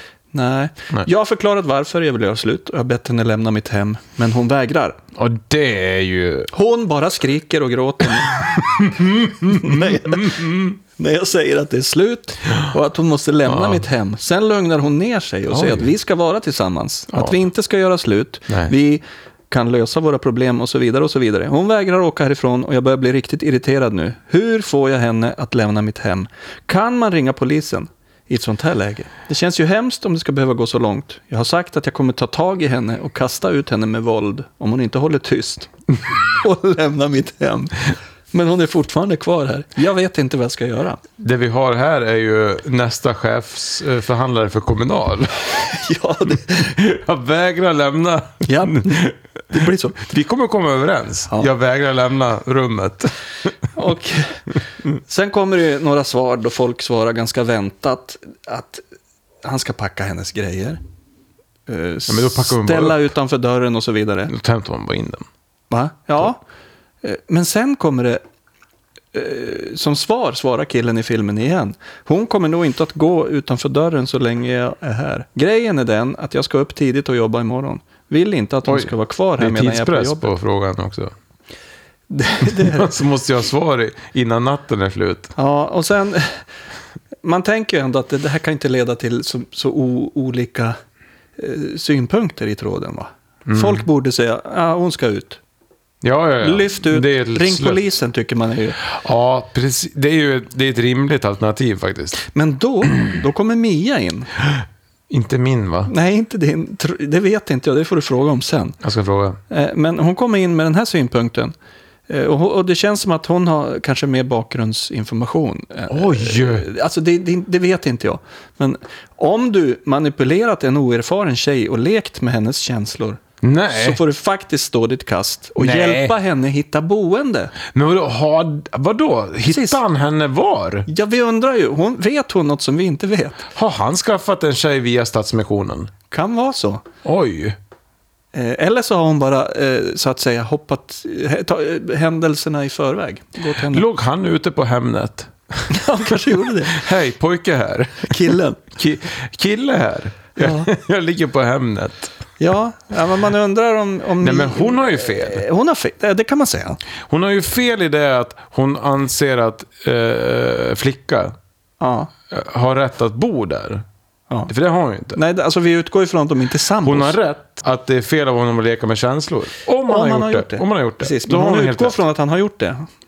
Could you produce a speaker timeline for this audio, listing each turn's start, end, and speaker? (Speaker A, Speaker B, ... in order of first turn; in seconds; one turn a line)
Speaker A: 0.3-5.0
Speaker B: 5.1-6.5
Speaker A: 6.5-8.9
Speaker B: 8.4-10.7
Speaker A: 9.4-41.0
Speaker B: 13.5-13.8
Speaker B: 15.5-15.9
Speaker B: 17.1-17.4
Speaker B: 41.2-45.6
Speaker A: 45.5-46.8
Speaker B: 46.3-53.5
Speaker A: 48.5-50.0
Speaker A: 53.7-58.8
Speaker A: 59.4-60.8
Speaker A: 61.7-64.3
Speaker B: 62.1-63.1
Speaker B: 64.3-65.3
Speaker A: 65.7-66.4
Speaker A: 67.0-68.2
Speaker A: 69.1-80.3
Speaker B: 78.6-81.1
Speaker A: 82.1-82.9
Speaker B: 82.4-85.3
Speaker A: 85.4-86.5
Speaker A: 87.2-90.8
Speaker A: 91.4-95.4
Speaker B: 93.5-93.9
Speaker B: 96.0-97.9
Speaker A: 96.4-98.8
Speaker B: 98.8-102.2
Speaker A: 102.2-104.3
Speaker B: 104.4-105.9
Speaker A: 105.9-108.8
Speaker B: 108.8-109.4
Speaker A: 109.5-111.5
Speaker A: 112.1-127.6
Speaker B: 115.9-116.7
Speaker B: 123.4-124.0
Speaker B: 125.6-126.1
Speaker B: 127.7-130.9
Speaker A: 129.4-129.8
Speaker A: 130.9-133.5
Speaker B: 133.6-135.9
Speaker A: 136.1-136.8
Speaker B: 137.0-137.6
Speaker A: 138.3-143.9
Speaker B: 143.5-152.2
Speaker A: 145.7-146.9
Speaker A: 148.0-148.6
Speaker A: 150.4-150.7
Speaker A: 152.4-156.8
Speaker B: 154.2-155.4
Speaker B: 157.0-161.4
Speaker A: 161.8-162.1
Speaker B: 162.3-163.8
Speaker B: 164.5-165.2
Speaker A: 165.1-167.2
Speaker B: 166.8-172.0
Speaker A: 169.8-172.9